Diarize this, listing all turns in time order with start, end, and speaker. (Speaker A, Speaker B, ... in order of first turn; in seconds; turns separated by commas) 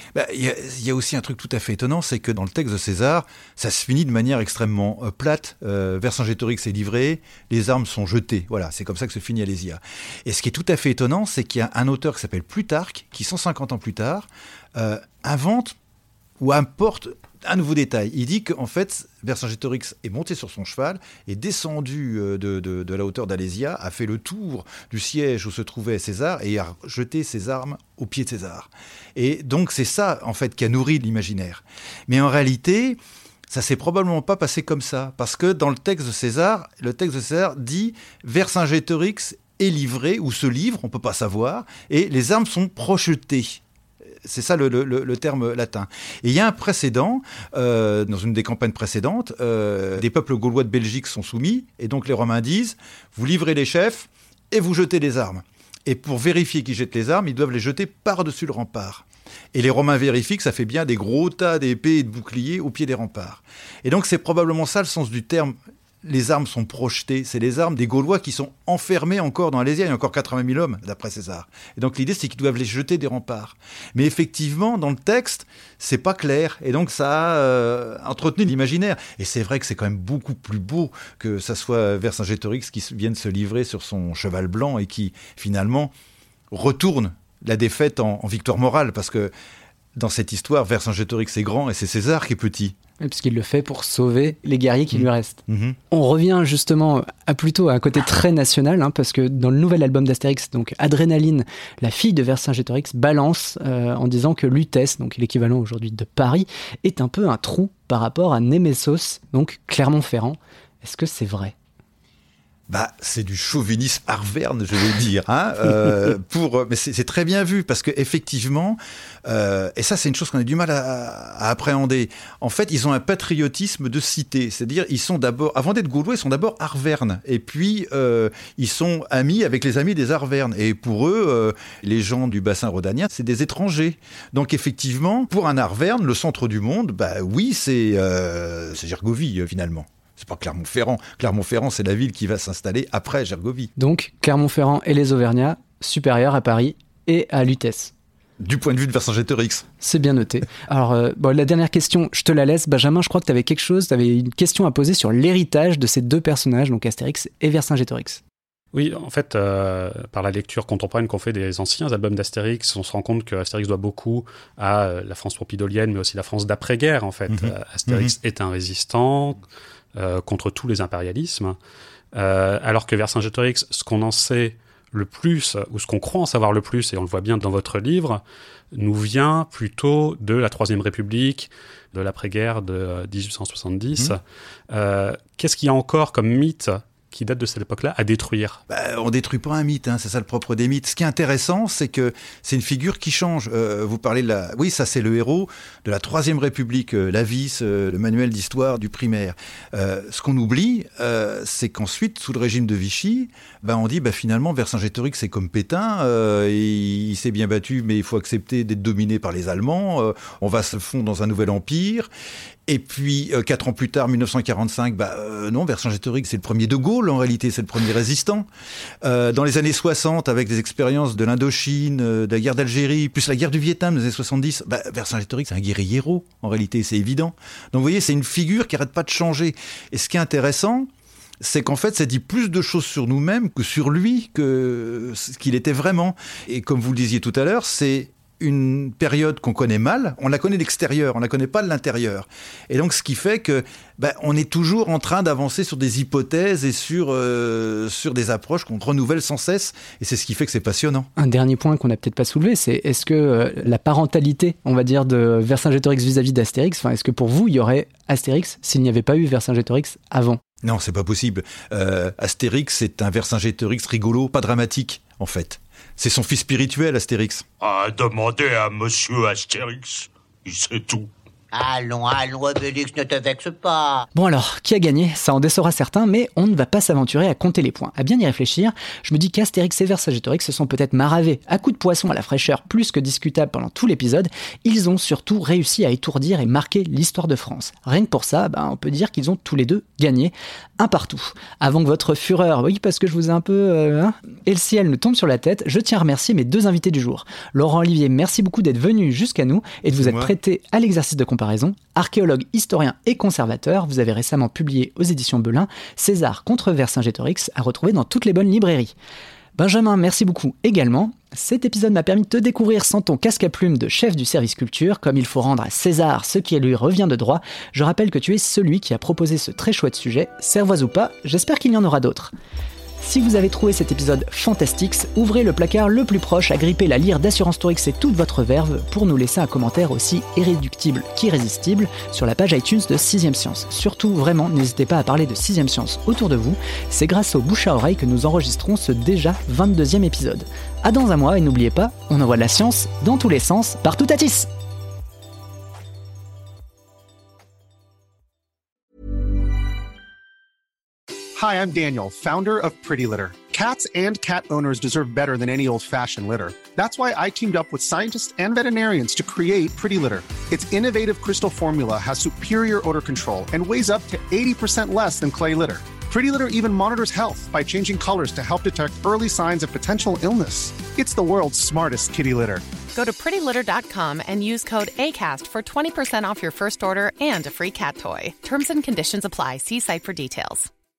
Speaker A: 0.1-15.8, Speaker A: 16.4-43.6, Speaker A: 44.2-85.9, Speaker A: 86.5-89.3, Speaker A: 89.9-92.8, Speaker B: 93.0-111.5, Speaker A: 94.9-95.8, Speaker A: 112.7-143.7, Speaker B: 143.8-147.9, Speaker A: 148.4-149.7, Speaker B: 149.8-158.2, Speaker C: 158.7-169.4, Speaker A: 167.3-168.1, Speaker C: 169.9-171.6, Speaker C: 172.1-178.2, Speaker C: 178.7-184.2, Speaker C: 184.7-188.6, Speaker A: 188.7-212.1, Speaker A: 212.7-218.5, Speaker A: 219.0-230.9, Speaker A: 231.4-251.1, Speaker B: 251.2-260.4, Speaker A: 260.6-267.4, Speaker D: 267.6-271.1, Speaker E: 271.5-274.1, Speaker B: 274.1-308.9, Speaker A: 299.9-300.3, Speaker B: 309.6-322.3, Speaker B: 323.0-344.5, Speaker F: 351.4-372.6, Speaker G: 372.9-380.7